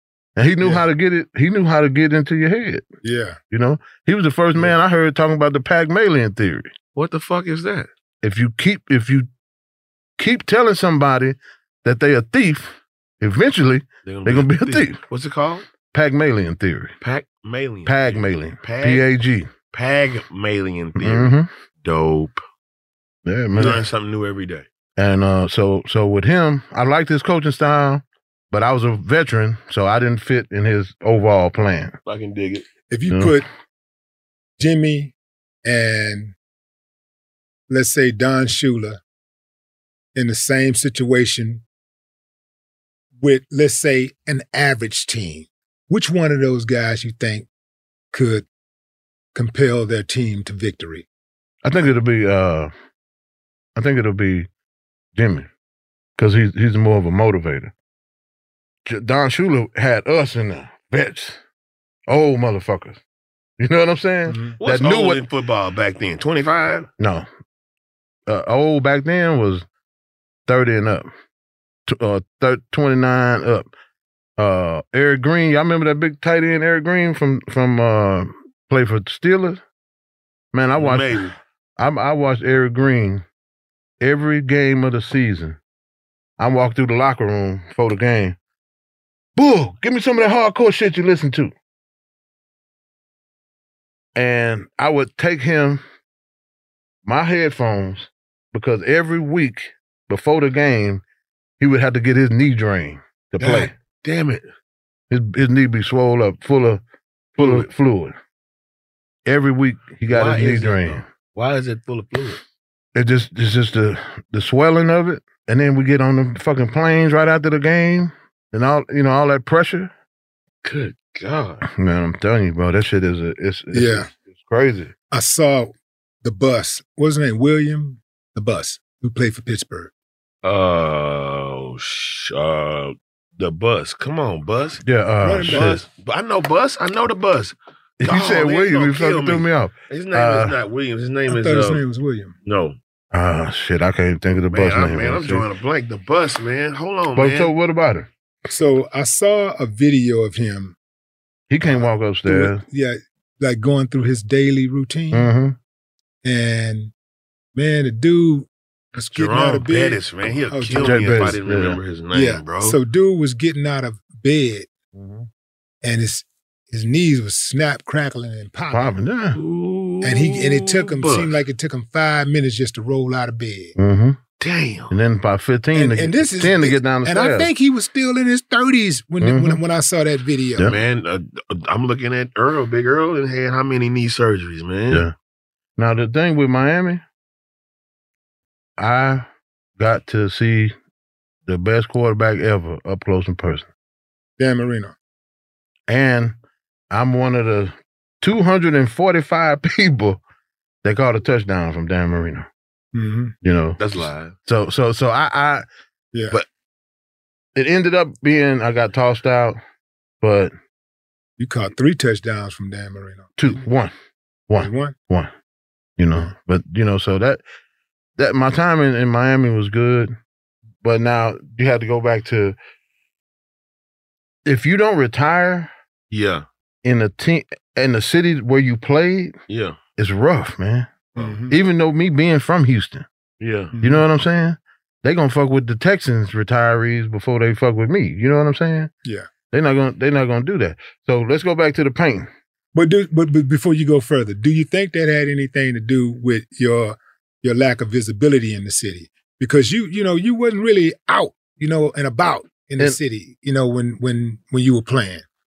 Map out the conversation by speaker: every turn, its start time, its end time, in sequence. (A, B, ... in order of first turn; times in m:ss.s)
0:00.4-0:02.8 A
0:03.0-0:03.4 B
0:03.5-0:06.7 A
0:06.9-0:07.9 C
0:08.2-0:09.3 A
0:10.2-0:15.0 A
0:14.1-0:15.7 C
0:15.9-0:17.0 A
0:17.0-0:19.1 C
0:17.9-0:19.5 A
0:19.7-0:22.4 C
0:21.0-0:21.5 A
0:23.3-0:23.8 A
0:23.6-0:23.8 B
0:23.6-0:24.7 C
0:25.0-0:31.9 A
0:32.1-0:32.7 C
0:32.9-0:33.5 B
0:34.6-0:36.4 B
0:37.7-0:39.0 B
0:40.2-0:41.6 B
0:43.2-0:47.5 B
0:48.1-0:48.5 B
0:49.4-0:51.1 B
0:51.6-0:52.7 A
0:53.8-0:54.5 A
0:55.2-0:55.5 A
0:56.2-0:57.7 A
0:58.9-1:01.4 A
1:02.1-1:03.0 A
1:03.6-1:05.2 A
1:04.3-1:04.6 B
1:04.6-1:06.9 C
1:07.0-1:07.3 A
1:08.3-1:09.6 A
1:10.5-1:11.1 A
1:11.9-1:13.7 A
1:14.4-1:19.6 A
1:20.5-1:23.2 A
1:20.8-1:21.4 C
1:24.0-1:25.6 A
1:26.4-1:28.4 A
1:29.4-1:31.5 A
1:34.2-1:35.8 A
1:37.0-1:41.0 A
1:41.6-1:43.7 A
1:43.4-1:44.4 C
1:45.1-1:46.8 A
1:47.4-1:48.2 A
1:47.4-1:47.7 C
1:49.2-1:51.0 A
1:50.1-1:52.4 C
1:53.0-1:59.9 A
2:00.6-2:01.6 C
2:01.7-2:04.9 A
2:03.7-2:04.1 B
2:05.1-2:09.9 B
2:10.4-2:14.8 C
2:14.8-2:15.8 A
2:15.2-2:15.8 B
2:15.4-2:21.8 C
2:18.0-2:20.6 A
2:21.3-2:22.3 B
2:22.4-2:22.8 C
2:23.1-2:25.5 A
2:24.5-2:27.5 C
2:27.2-2:28.1 A
2:28.5-2:30.8 B
2:31.5-2:32.6 A
2:31.6-2:35.3 B
2:35.1-2:35.6 A
2:36.2-2:36.9 B
2:37.6-2:41.3 B
2:39.1-2:42.8 C
2:40.8-2:41.8 A
2:42.1-2:44.7 B
2:44.9-2:45.3 A
2:45.8-2:49.0 B
2:48.7-2:49.4 A
2:49.4-2:51.4 C
2:50.0-2:53.8 B
2:53.8-2:54.2 A
2:54.4-2:54.9 C
2:54.9-2:57.5 A
2:55.7-3:00.7 B
2:59.2-2:59.6 A
3:00.6-3:05.1 C
3:05.8-3:07.0 A
3:08.8-3:09.3 A
3:09.8-3:10.7 A
3:11.5-3:13.7 A
3:14.4-3:15.0 B
3:15.9-3:16.3 A
3:16.9-3:20.2 A
3:20.8-3:22.5 A
3:22.9-3:23.4 B
3:23.4-3:23.8 A
3:23.8-3:24.4 C
3:24.4-3:25.6 A
3:26.1-3:26.4 B
3:27.6-3:29.6 A
3:30.2-3:30.5 A
3:31.4-3:33.6 B
3:33.4-3:33.9 A
3:34.5-3:35.3 A
3:34.6-3:35.0 B
3:36.0-3:37.4 A
3:38.2-3:40.1 A
3:40.8-3:42.6 A
3:44.5-3:45.7 A
3:46.1-3:46.4 C
3:46.8-3:49.3 A
3:49.5-3:49.8 C
3:50.0-3:53.1 A
3:51.2-3:51.6 B
3:53.4-3:53.7 C
3:53.7-3:54.0 B
3:53.8-3:58.9 A
3:59.5-4:02.3 A
4:02.7-4:15.2 B